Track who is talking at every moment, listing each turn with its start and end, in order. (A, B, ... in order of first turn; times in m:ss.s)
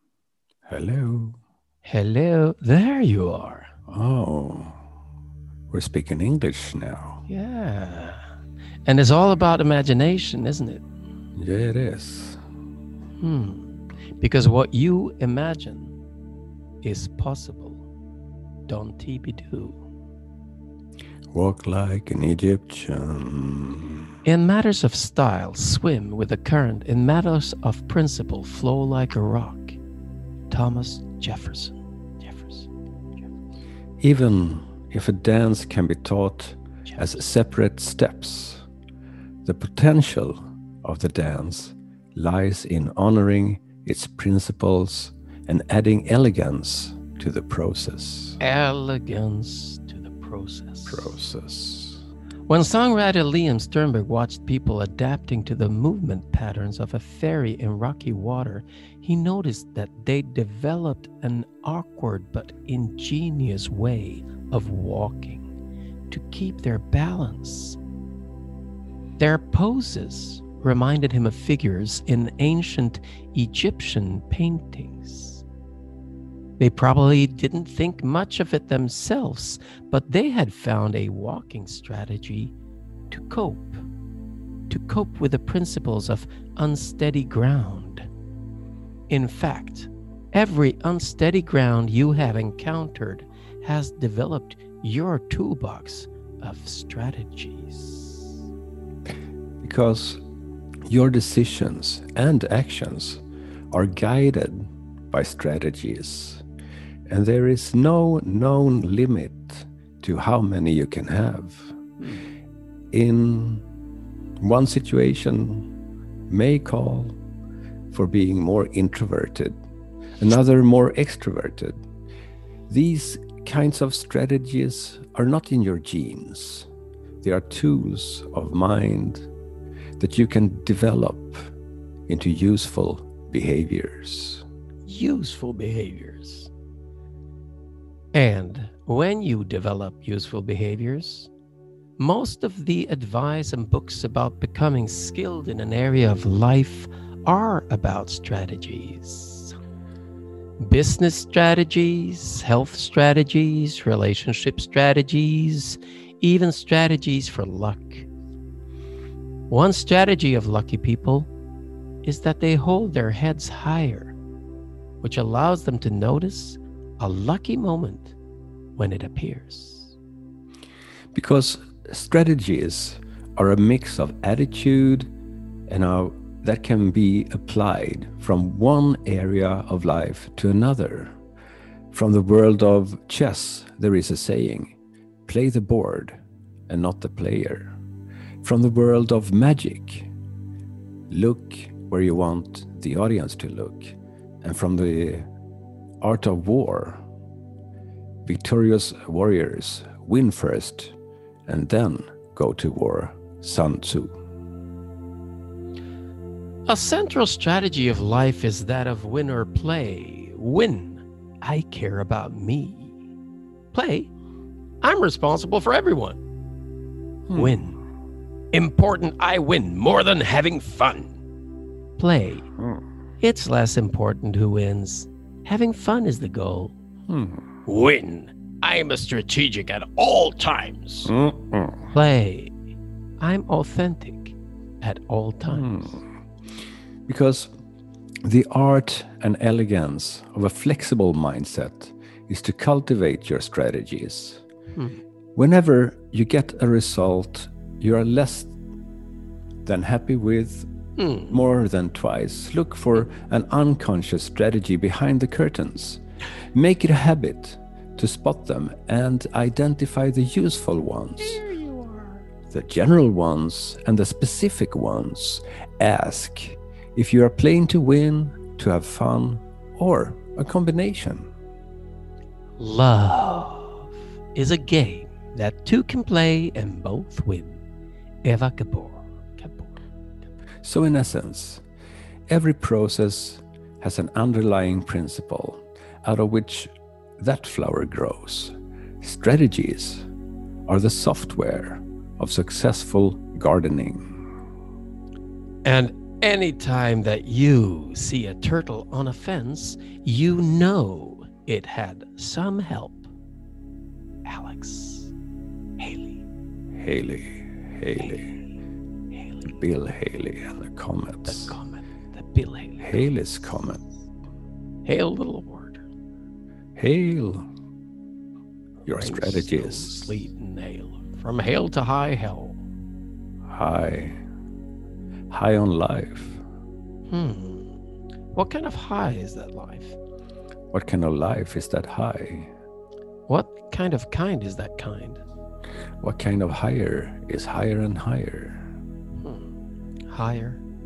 0:00.7-0:01.4 A
0:01.8-0:03.7 B
0:03.9-0:04.8 A
0:05.7-0:07.2 A
0:07.3-0:08.2 B
0:08.9-0:10.8 B
0:11.4-0:12.4 A
0:13.2-0:15.9 B
0:16.8-0:17.9 B
0:18.7-0:19.8 B
0:21.3-0:24.0 A
0:24.2-0:29.8 B
0:30.5-0:32.7 B
0:34.0-0:38.7 A
0:36.9-0:37.2 B
0:39.4-0:48.4 A
0:48.4-0:51.2 B
0:50.9-0:52.0 A
0:52.5-1:05.5 B
1:06.1-1:07.8 B
1:09.2-1:15.4 B
1:16.6-1:22.5 B
1:23.1-1:23.8 B
1:24.7-1:28.1 B
1:29.1-1:38.4 B
1:39.6-1:40.2 A
1:40.9-1:46.4 A
1:47.1-1:51.8 A
1:52.9-1:53.6 A
1:54.4-1:55.7 A
1:56.3-1:57.2 A
1:57.9-1:59.6 A
2:00.2-2:01.8 A
2:02.7-2:06.7 A
2:07.2-2:09.3 A
2:10.0-2:11.5 A
2:12.1-2:14.4 A
2:14.9-2:16.5 B
2:18.1-2:21.3 B
2:22.0-2:29.6 B
2:30.6-2:38.1 B
2:39.5-2:41.3 B
2:42.0-2:44.2 B
2:45.0-2:48.2 B
2:48.8-2:50.0 B
2:51.1-2:55.1 A
2:55.7-3:01.2 A
3:01.9-3:07.8 A
3:08.4-3:10.1 A
3:11.1-3:15.3 A
3:16.0-3:17.0 A
3:18.2-3:21.0 A
3:21.5-3:24.2 A
3:26.7-3:33.0 B
3:33.7-3:34.1 B
3:34.8-3:36.2 B
3:37.3-3:37.6 A
3:37.3-3:37.8 B
3:38.5-3:41.2 B
3:42.0-3:42.5 B
3:43.2-3:46.8 B
3:47.1-3:47.5 A
3:47.7-3:51.1 B
3:51.1-3:51.9 A
3:51.9-3:52.5 B
3:53.2-3:56.0 B
3:55.5-3:56.0 A
3:57.1-3:57.5 A
3:58.2-4:04.4 A
4:04.8-4:05.0 B
4:05.4-4:08.5 A
4:09.7-4:10.7 A
4:11.0-4:11.4 B
4:11.3-4:16.0 A
4:16.5-4:21.4 A
4:21.3-4:22.2 B
4:22.5-4:31.3 A
4:32.6-4:37.6 B
4:38.2-4:39.8 B
4:40.6-4:41.6 A
4:42.3-4:50.1 A
4:50.7-4:54.2 A
4:55.6-5:03.1 B
5:04.2-5:05.1 B
5:05.8-5:06.2 B
5:06.8-5:08.4 A
5:08.0-5:08.4 B
5:09.1-5:09.6 B
5:09.5-5:11.6 A
5:11.3-5:13.1 B
5:12.8-5:13.8 A
5:14.8-5:15.9 B
5:16.8-5:17.5 A
5:18.9-5:20.3 A
5:19.0-5:22.6 B
5:23.5-5:24.2 A
5:25.3-5:26.4 A
5:27.1-5:27.8 B
5:28.3-5:30.0 B
5:30.7-5:32.5 A
5:33.3-5:35.2 B
5:36.0-5:38.7 A
5:39.2-5:39.6 B
5:40.1-5:40.6 B